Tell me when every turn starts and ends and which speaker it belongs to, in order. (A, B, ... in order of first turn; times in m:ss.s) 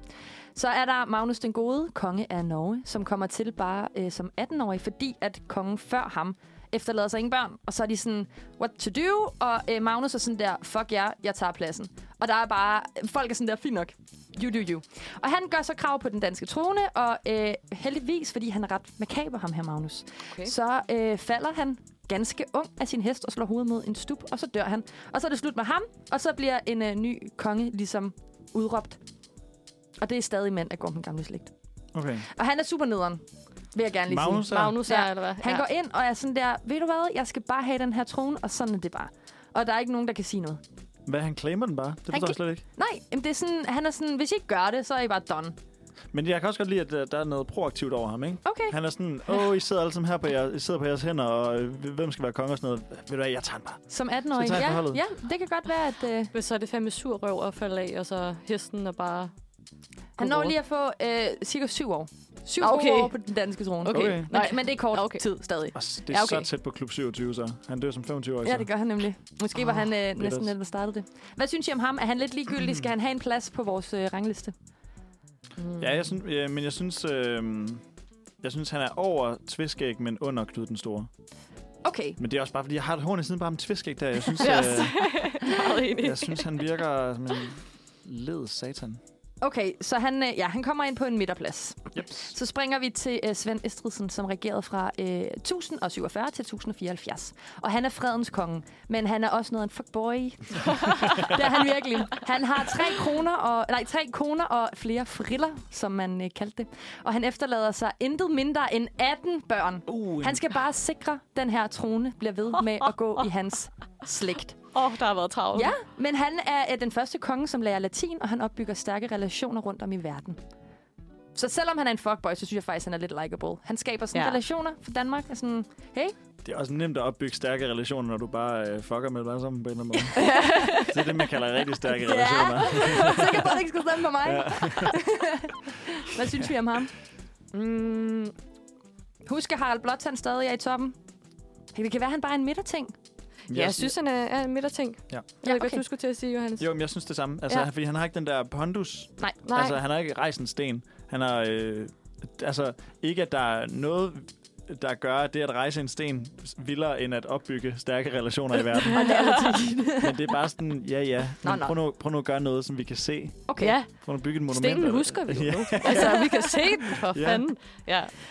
0:00.5-0:29.0 A
0:30.0-0:31.5 A
0:31.9-0:32.3 B
0:32.3-0:33.2 A
0:33.7-0:40.6 A
0:34.1-0:34.8 B
0:34.5-0:35.6 C
0:41.0-0:42.6 B
0:42.1-0:45.6 A
0:46.1-0:55.0 B
0:48.4-0:48.8 A
0:53.9-0:56.3 A
0:56.3-0:59.3 C
1:00.2-1:00.5 C
1:00.2-1:05.8 A
1:02.6-1:03.1 C
1:03.9-1:05.2 C
1:03.9-1:04.3 B
1:05.7-1:08.7 B
1:06.1-1:06.5 C
1:08.4-1:14.5 A
1:10.2-1:10.5 B
1:15.8-1:17.8 B
1:18.4-1:21.1 B
1:21.8-1:22.2 A
1:22.2-1:25.1 B
1:24.4-1:26.4 C
1:26.0-1:29.0 B
1:29.4-1:54.6 A
1:31.9-1:32.3 B
1:49.9-1:50.4 B
1:54.7-1:55.7 C
1:55.5-2:00.4 A
2:01.3-2:06.1 A
2:04.1-2:04.4 C
2:06.4-2:13.6 B
2:10.2-2:10.9 C
2:11.9-2:16.9 A
2:12.8-2:13.1 C
2:14.2-2:15.0 B
2:17.5-2:18.3 C
2:19.2-2:21.0 A
2:21.7-2:22.9 A
2:23.5-2:26.7 C
2:23.5-2:23.9 B
2:25.4-2:25.8 A
2:26.6-2:39.0 B
2:29.4-2:29.8 C
2:38.9-2:40.4 A
2:38.9-2:39.6 C
2:40.0-2:46.2 B
2:41.4-2:41.7 A
2:43.5-2:43.8 A
2:43.6-2:43.9 C
2:44.5-2:48.1 C
2:45.8-2:46.5 A
2:46.9-2:47.4 B